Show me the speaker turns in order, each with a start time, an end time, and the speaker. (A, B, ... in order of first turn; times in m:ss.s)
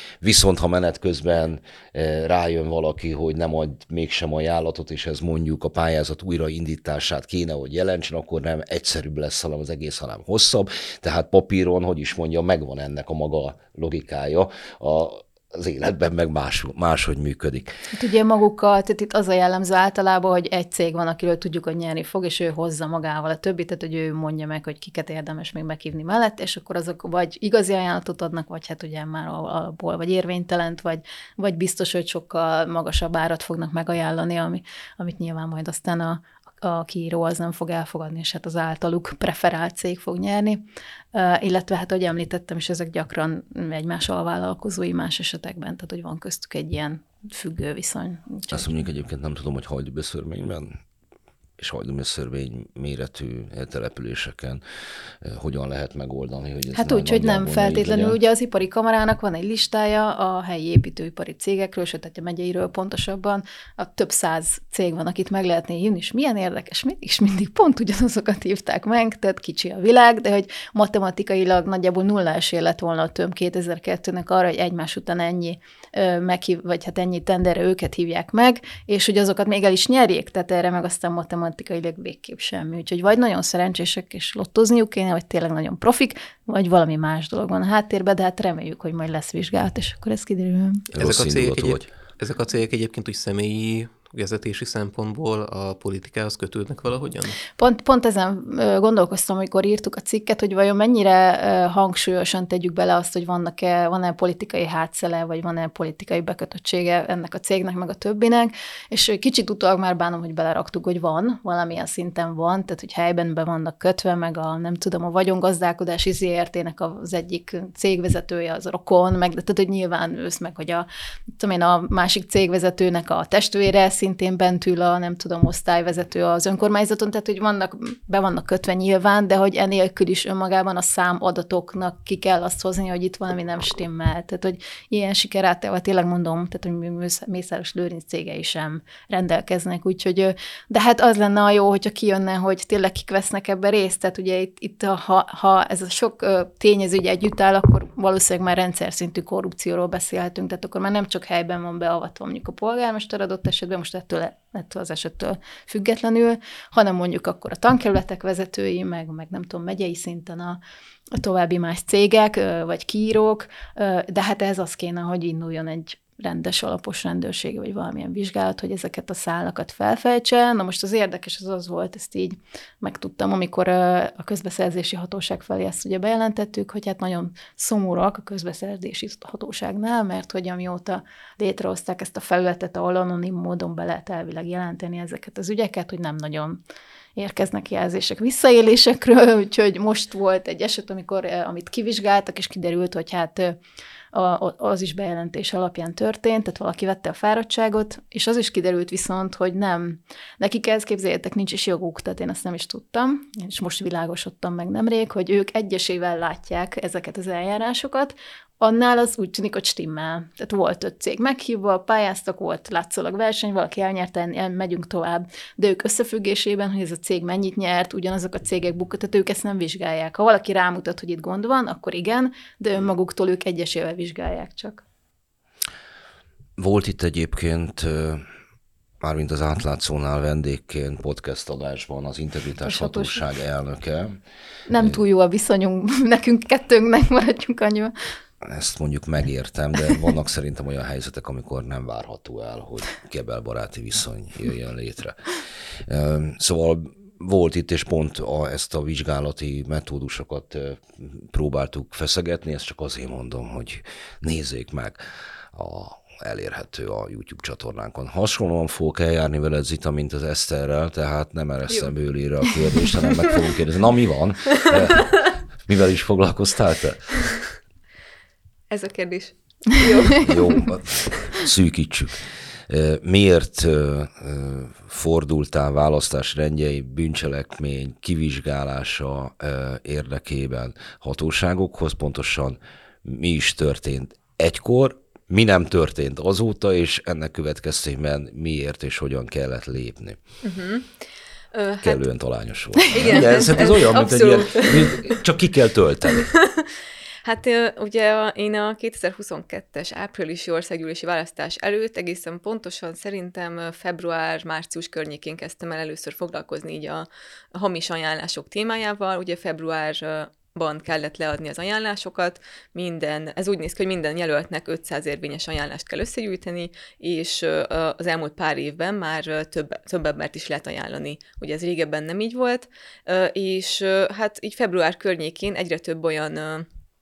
0:00.2-0:17.8 A
0:17.9-0:40.6 B
0:41.1-0:48.7 B
0:48.5-0:50.8 A
0:51.6-0:54.6 A
0:55.2-0:58.2 A
0:56.7-1:30.8 B
1:30.9-1:31.9 A
1:31.0-1:37.4 C
1:37.6-2:00.9 B
2:01.4-2:40.6 B
2:41.1-3:06.6 B
3:07.2-3:13.6 B
3:14.1-3:44.8 B
3:46.6-3:48.2 A
3:49.0-3:54.2 A
3:52.6-3:53.2 B
3:54.7-3:57.9 B
3:58.4-4:05.4 A
4:05.9-4:15.0 A
4:15.5-4:27.2 A
4:28.7-4:30.7 D
4:30.2-4:50.2 A
4:50.4-4:50.9 D
4:51.5-4:52.1 D
4:51.8-4:56.3 A
4:52.9-4:55.2 D
4:56.1-4:56.7 D
4:57.2-5:26.7 D